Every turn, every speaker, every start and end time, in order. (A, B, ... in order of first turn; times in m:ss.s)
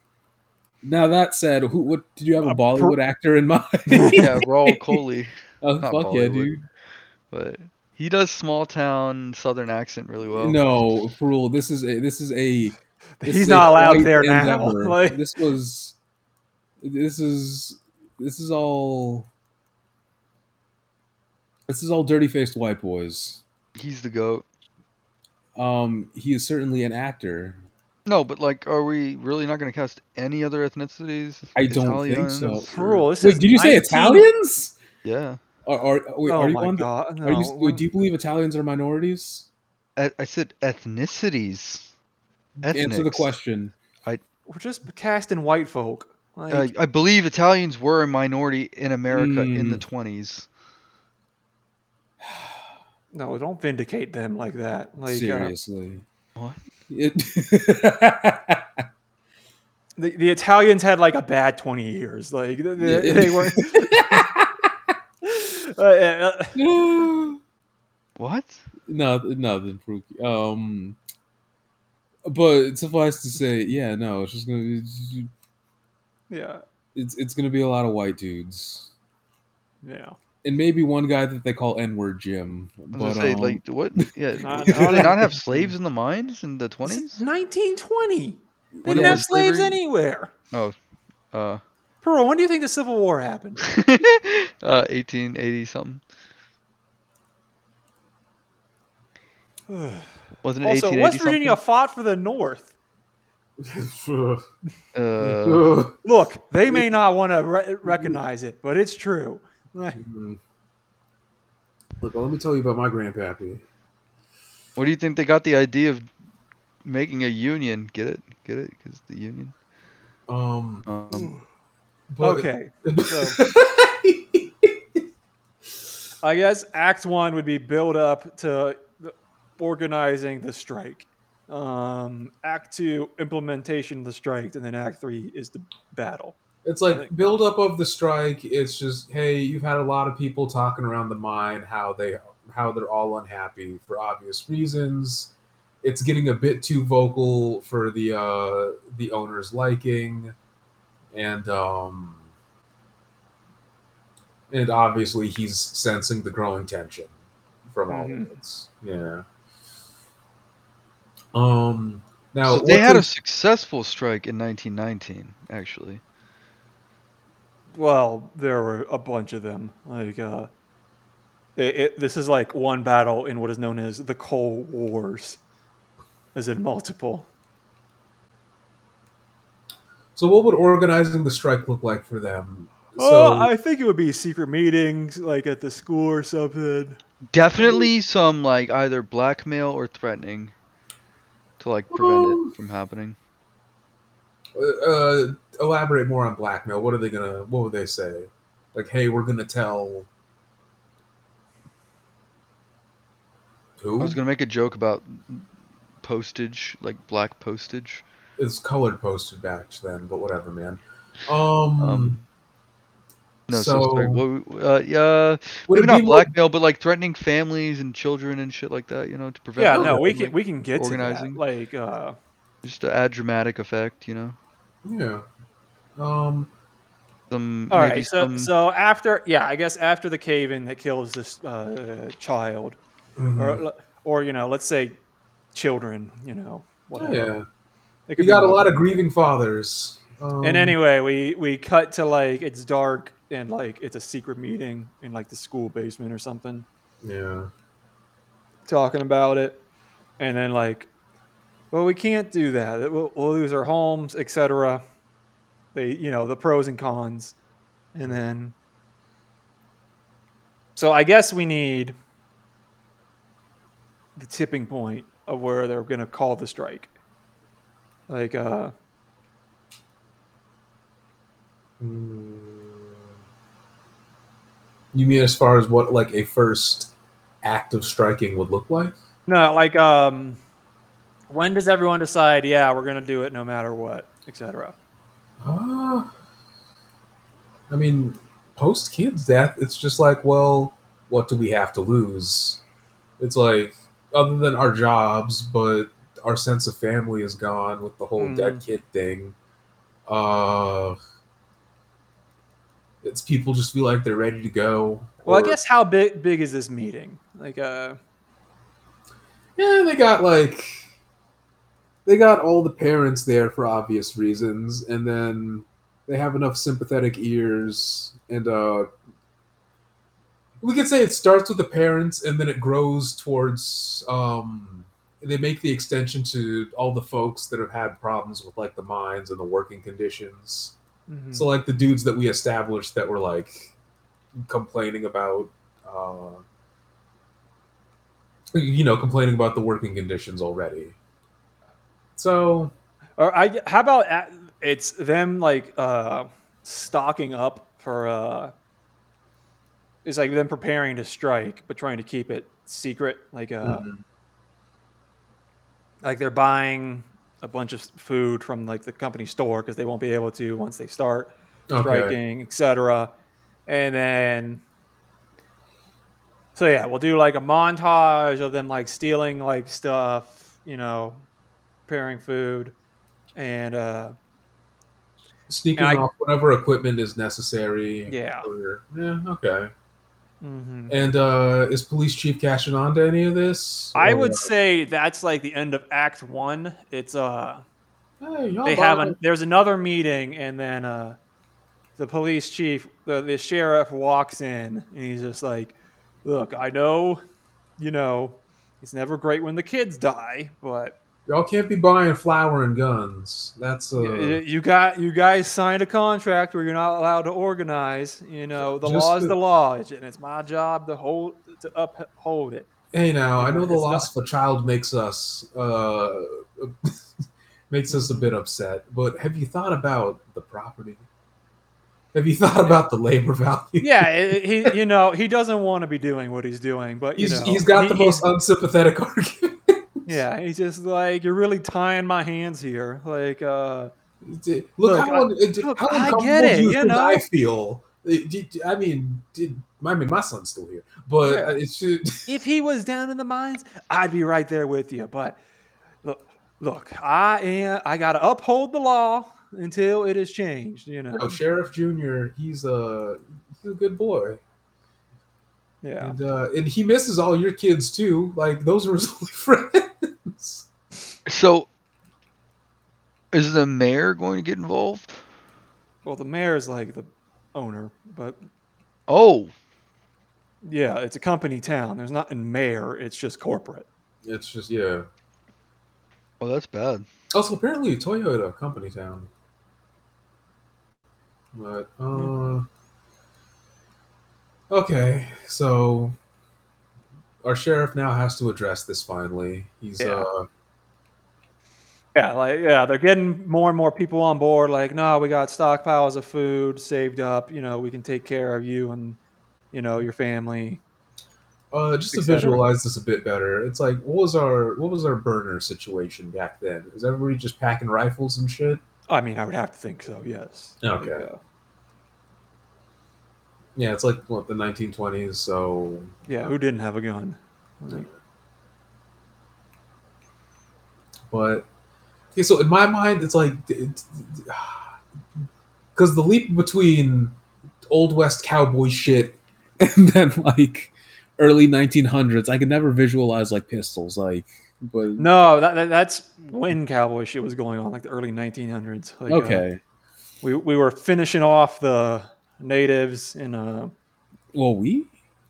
0:00.8-0:04.8 A
0:02.4-0:03.0 B
0:03.9-0:04.3 B
0:04.2-0:06.5 C
0:05.6-0:06.6 A
0:07.3-0:10.6 C
0:10.4-0:15.9 A
0:13.2-0:15.2 B
0:16.8-0:19.3 A
0:21.7-0:23.4 A
0:23.8-0:24.4 C
0:25.6-0:27.6 A
0:28.0-0:32.7 C
0:31.5-0:34.8 A
0:32.7-0:34.3 B
0:35.0-0:35.4 C
0:35.6-0:39.5 A
0:36.3-0:37.8 B
0:40.0-0:41.9 C
0:42.6-0:43.7 A
0:42.6-0:43.3 C
0:44.5-0:46.7 B
0:46.5-0:50.5 C
0:49.1-0:49.8 A
0:52.2-0:52.6 A
0:53.1-0:55.5 B
0:55.1-0:56.0 A
0:56.9-0:58.8 A
1:00.0-1:04.2 B
1:02.8-1:04.7 A
1:05.2-1:06.6 B
1:06.5-1:07.4 A
1:08.2-1:08.6 C
1:08.9-1:11.0 A
1:12.2-1:15.3 A
1:16.3-1:16.6 B
1:16.9-1:18.9 A
1:19.8-1:20.2 B
1:20.4-1:23.6 A
1:22.9-1:27.2 C
1:24.4-1:25.7 A
1:24.4-1:25.4 B
1:26.8-1:30.3 B
1:28.8-1:29.3 A
1:28.8-1:29.8 C
1:30.5-1:30.8 C
1:31.3-1:31.6 C
1:32.0-1:33.7 B
1:33.6-1:36.0 C
1:39.7-1:40.1 B
1:40.4-1:41.6 C
1:40.6-1:42.7 B
1:43.6-1:44.4 A
1:44.9-1:45.7 C
1:45.2-1:46.0 A
1:46.0-1:50.0 B
1:47.8-1:48.2 A
1:49.9-1:50.4 A
1:52.0-1:53.6 A
1:54.8-1:56.1 C
1:56.8-1:59.5 C
2:00.3-2:00.8 A
2:00.8-2:01.3 C
2:01.1-2:01.4 B
2:02.1-2:04.8 A
2:02.2-2:03.4 B
2:06.2-2:16.4 B
2:16.6-2:25.3 A
2:16.9-2:17.4 B
2:25.8-2:30.3 A
2:31.1-2:32.2 A
2:34.5-2:37.1 A
2:37.7-2:39.2 A
2:37.9-2:38.3 B
2:41.3-2:43.1 A
2:42.4-2:46.0 C
2:47.7-2:50.5 B
2:51.6-2:55.4 B
2:56.3-2:57.3 B
3:00.2-3:03.5 A
3:03.0-3:07.0 B
3:07.3-3:10.5 C
3:11.6-3:13.2 C
3:11.9-3:12.5 A
3:14.6-3:20.1 A
3:23.8-3:24.2 A
3:24.0-3:25.5 C
3:26.0-3:28.0 C
3:28.4-3:32.2 A
3:31.8-3:32.2 C
3:33.5-3:41.4 C
3:33.5-3:34.2 A
3:35.7-3:36.3 A
3:39.6-3:42.2 B
3:39.7-3:40.1 A
3:42.6-3:44.4 C
3:44.8-3:45.2 A
3:46.0-3:46.5 A
3:47.3-3:48.5 C
3:47.7-3:52.8 B
3:53.2-3:53.6 A
3:53.4-3:55.0 B
3:55.5-3:57.3 B
3:57.0-3:57.4 A
3:58.1-3:58.7 B
3:58.2-4:00.8 A
4:00.4-4:06.6 B
4:07.0-4:07.5 A
4:08.7-4:09.6 B
4:10.2-4:10.9 B
4:11.7-4:14.8 B
4:15.7-4:17.3 B
4:17.9-4:18.5 B
4:20.8-4:21.9 B
4:24.2-4:26.9 B
4:28.1-4:28.7 B
4:31.8-4:32.9 A
4:34.9-4:38.9 A
4:39.3-4:40.4 B
4:41.3-4:44.7 B
4:45.4-4:46.1 A
4:47.7-4:52.6 A
4:53.2-4:59.4 A
4:58.2-4:58.6 B
5:00.1-5:01.0 A
5:03.0-5:05.6 A
5:05.2-5:08.0 B
5:09.6-5:10.8 A
5:12.0-5:18.9 A
5:20.6-5:30.7 A
5:31.1-5:31.5 B
5:31.3-5:33.7 A
5:34.4-5:36.4 A
5:38.5-5:41.0 A
5:42.2-5:42.7 A
5:43.2-5:48.5 B
5:50.0-5:53.8 B
5:53.6-5:54.0 A
5:56.0-6:03.1 B
6:01.7-6:02.2 A
6:03.7-6:04.6 B
6:06.5-6:11.2 B
6:11.9-6:12.7 B
6:13.4-6:14.1 B
6:15.5-6:19.7 A
6:15.8-6:16.1 B
6:18.1-6:18.5 B
6:20.4-6:20.9 B
6:20.9-6:24.5 A
6:23.9-6:27.6 B
6:28.2-6:29.2 A
6:28.6-6:31.2 B
6:32.0-6:37.2 B
6:37.8-6:40.9 B
6:41.3-6:44.4 A
6:44.0-6:52.7 B
6:48.6-6:49.4 A
6:52.9-6:56.9 A
6:53.4-6:54.1 B
6:57.7-7:01.0 A
6:57.9-6:58.3 B
7:02.1-7:04.7 A
7:03.8-7:08.2 B
7:07.2-7:10.2 A
7:10.1-7:13.9 B
7:14.2-7:22.4 A
7:14.8-7:17.2 B
7:21.2-7:21.6 B
7:22.3-7:25.4 B
7:26.0-7:31.4 B
7:31.2-7:34.4 A
7:35.8-7:36.1 B
7:36.0-7:40.7 A
7:41.2-7:41.7 C
7:43.3-7:45.2 C
7:46.0-7:48.4 B
7:49.1-7:49.5 C
7:50.6-7:53.9 B
7:54.2-7:55.0 A
7:56.4-7:57.1 C
7:57.3-7:59.3 A
8:01.5-8:02.6 A
8:04.7-8:06.2 A
8:07.4-8:10.5 A
8:10.0-8:10.3 B
8:12.1-8:19.2 B
8:19.7-8:20.8 B
8:21.7-8:28.8 A
8:22.1-8:22.6 B
8:29.1-8:31.4 B
8:30.8-8:31.2 A
8:33.8-8:36.1 A
8:36.3-8:38.1 B
8:41.3-8:41.6 A
8:42.3-8:44.9 A
8:46.0-8:47.3 A
8:47.9-8:55.3 A
8:55.2-8:59.6 B
8:59.3-8:59.8 A
9:00.4-9:03.9 B
9:04.5-9:05.1 A